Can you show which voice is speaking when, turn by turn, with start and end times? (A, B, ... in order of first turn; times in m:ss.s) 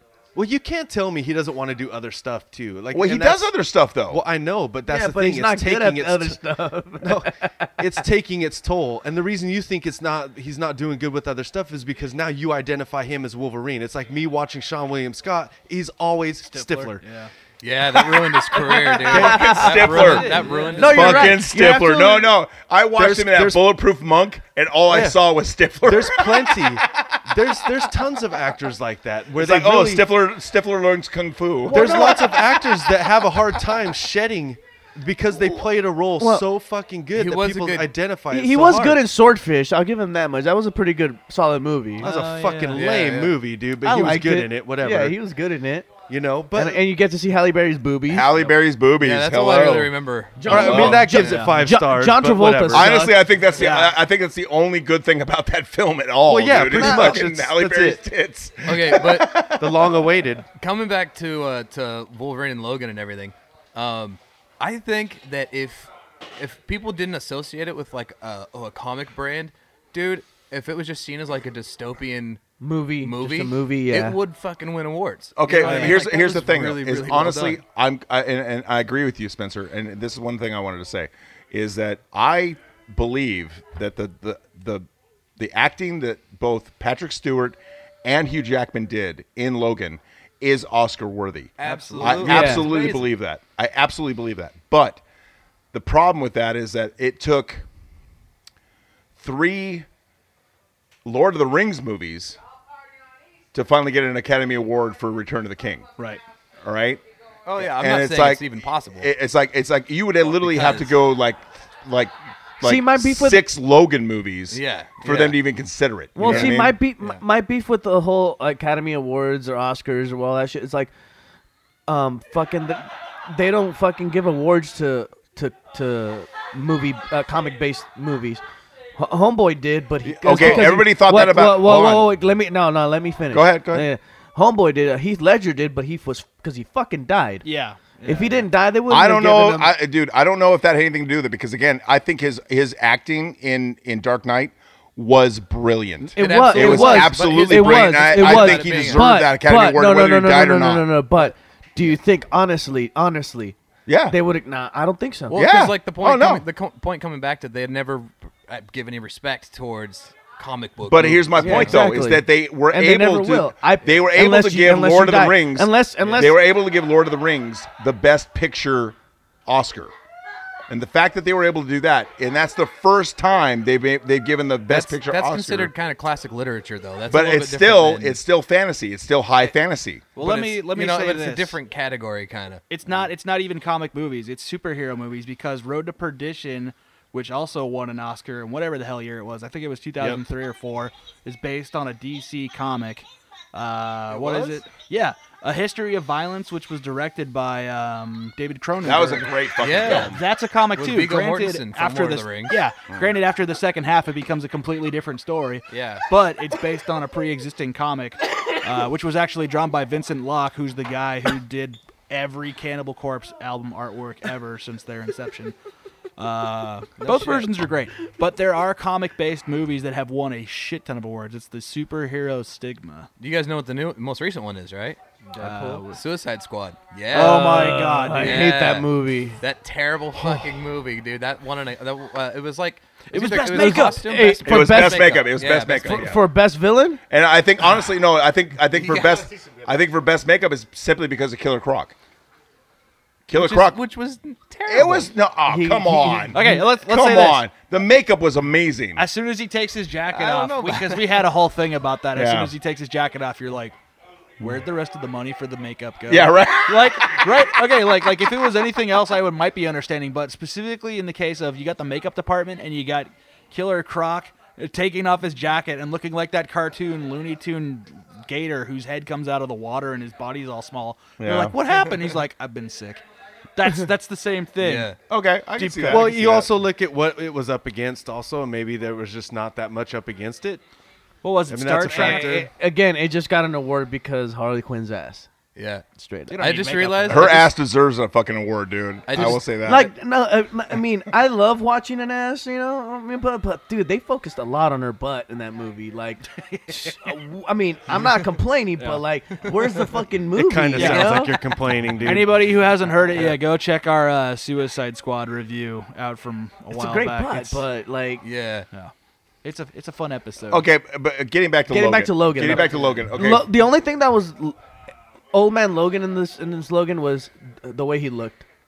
0:00.4-0:03.5 A
0:02.9-0:04.2 B
0:04.1-0:06.4 A
0:04.9-0:07.8 C
0:07.0-0:17.0 A
0:16.5-0:17.3 D
0:17.6-0:21.4 E
0:18.0-0:21.2 A
0:19.1-0:28.0 B
0:19.1-0:22.3 C
0:19.8-0:21.1 D
0:23.0-0:23.6 A
0:24.9-0:25.2 A
0:25.8-0:30.1 A
0:29.3-0:32.4 B
0:31.7-0:39.0 A
0:31.7-0:32.3 C
0:36.2-0:36.5 C
0:37.1-0:37.9 E
0:38.3-0:42.1 C
0:42.0-0:42.9 D
0:42.0-0:45.2 A
0:42.7-0:43.4 E
0:43.8-0:45.9 C
0:46.1-0:46.8 A
0:46.5-0:48.5 C
0:48.1-0:49.9 B
0:49.0-0:51.5 E
0:50.4-0:53.3 C
0:50.5-0:53.0 A
0:50.5-0:51.0 B
0:52.7-0:59.9 B
0:53.6-0:54.0 D
0:56.3-0:58.0 A
0:56.7-0:57.3 C
0:58.6-0:59.5 E
0:59.5-1:00.5 A
1:00.6-1:12.4 E
1:12.6-1:14.2 C
1:13.0-1:17.6 E
1:15.4-1:24.9 B
1:15.6-1:16.0 D
1:25.4-1:35.0 B
1:31.6-1:33.1 E
1:31.6-1:32.6 D
1:32.2-1:32.7 C
1:35.7-1:37.6 B
1:39.2-1:39.9 B
1:41.0-1:42.4 B
1:43.5-1:45.9 B
1:46.6-1:47.0 B
1:47.5-1:49.1 E
1:47.6-1:56.8 B
1:50.3-1:51.0 E
1:52.6-1:53.4 C
1:54.5-1:55.4 E
1:56.2-2:00.9 C
1:56.2-1:57.2 E
2:01.9-2:08.4 C
2:09.0-2:17.5 C
2:10.0-2:12.1 B
2:13.3-2:13.9 B
2:17.4-2:18.5 D
2:18.0-2:19.7 C
2:18.9-2:30.9 B
2:26.0-2:33.6 C
2:26.2-2:29.1 E
2:33.9-2:34.2 B
2:34.1-2:35.4 C
2:35.3-2:41.8 E
2:35.3-2:36.4 B
2:40.9-2:49.0 B
2:41.4-2:46.4 C
2:49.5-2:49.9 B
2:50.7-2:55.7 B
2:54.7-2:58.2 E
2:57.1-3:00.1 B
3:00.2-3:01.6 D
3:00.2-3:02.6 E
3:02.7-3:35.5 D
3:14.2-3:14.6 E
3:18.8-3:20.2 B
3:19.6-3:20.2 E
3:20.7-3:22.6 E
3:25.7-3:26.0 E
3:36.2-3:43.1 D
3:37.0-3:37.5 E
3:43.2-3:45.0 E
3:45.4-3:45.8 C
3:45.4-3:46.0 D
3:45.9-3:56.1 E
3:47.1-3:48.5 D
3:47.1-3:49.4 C
3:53.1-3:54.0 D
3:53.2-3:55.2 C
3:54.5-3:56.2 B
3:55.8-3:57.0 C
3:57.1-4:02.0 B
3:58.8-3:59.3 E
4:03.3-4:03.8 B
4:03.3-4:05.1 E
4:04.7-4:09.0 B
4:05.5-4:06.6 C
4:06.3-4:07.4 D
4:09.0-4:13.8 D
4:10.1-4:11.3 E
4:12.1-4:12.5 B
4:14.4-4:33.0 D
4:16.1-4:17.5 B
4:31.2-4:31.6 B
4:33.6-4:35.0 D
4:34.6-4:35.0 E
4:35.1-4:36.5 B
4:35.6-4:36.3 D
4:35.9-4:40.6 A
4:41.2-4:42.5 D
4:41.5-4:42.5 A
4:41.9-4:45.3 C
4:45.6-4:45.8 E
4:46.0-4:46.5 C
4:46.3-4:47.5 D
4:46.4-4:47.4 E
4:47.1-4:49.9 B
4:49.1-4:49.4 E
4:49.2-5:01.4 C
4:56.4-4:57.1 D
5:00.4-5:02.6 A
5:00.8-5:01.2 D
5:02.0-5:07.6 D
5:03.1-5:03.4 A
5:06.7-5:08.2 C
5:08.2-5:08.7 E
5:09.4-5:10.6 D
5:10.5-5:13.5 B
5:11.7-5:14.6 C
5:15.3-5:18.5 C